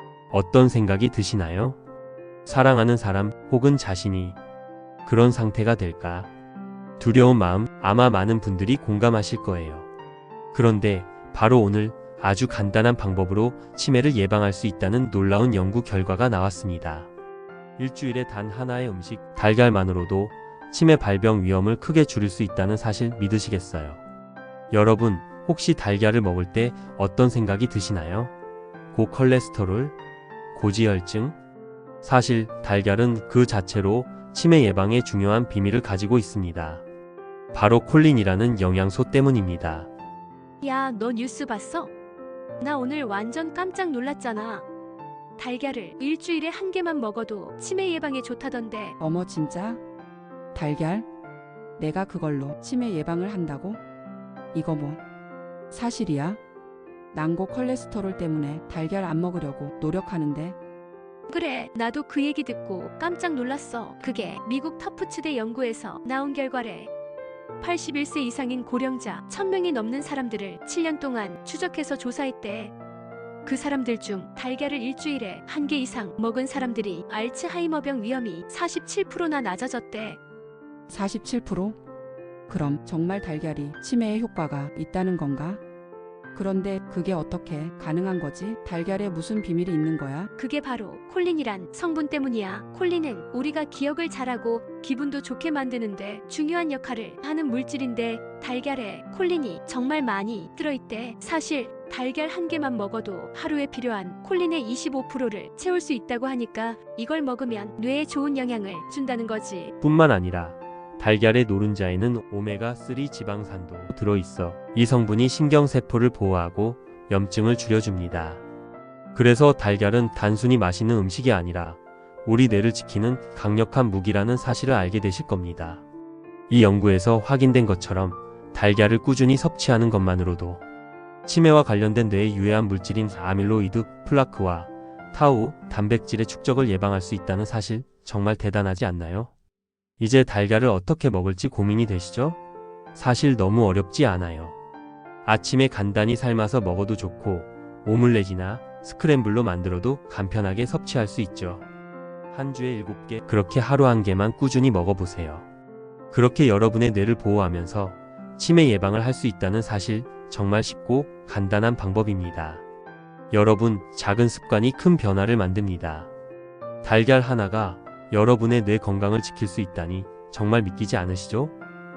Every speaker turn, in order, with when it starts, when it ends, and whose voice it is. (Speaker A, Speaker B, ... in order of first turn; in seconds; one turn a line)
Speaker A: 0.3-1.8
Speaker A: 2.5-4.4
Speaker A: 5.0-6.3
Speaker A: 7.0-9.9
Speaker A: 10.5-17.1
Speaker A: 17.8-24.0
Speaker A: 24.7-28.3
Speaker A: 28.9-29.9
Speaker A: 30.5-31.4
Speaker A: 32.0-36.8
Speaker A: 37.5-39.9
Speaker B: 40.6-41.9
Speaker B: 42.6-44.6
Speaker B: 45.4-49.0
Speaker C: 49.0-49.8
Speaker C: 50.5-51.1
Speaker C: 51.8-53.8
Speaker C: 54.5-55.0
Speaker C: 55.7-56.4
Speaker C: 57.1-60.6
Speaker B: 61.3-66.9
Speaker B: 67.6-72.7
Speaker B: 73.5-80.2
Speaker C: 80.9-81.8
Speaker C: 82.5-85.6
Speaker C: 86.3-90.3
Speaker B: 90.4-109.7
Speaker A: 109.8-118.4
Speaker A: 119.2-125.8
Speaker A: 126.5-130.6
Speaker A: 131.2-139.3
Speaker A: 140.0-142.4
Speaker A: 142.9-144.6
Speaker A: 145.2-151.7
Speaker A: 152.3-155.5
Speaker A: 156.1-162.6
Speaker A: 163.3-166.1
Speaker A: 166.8-171.5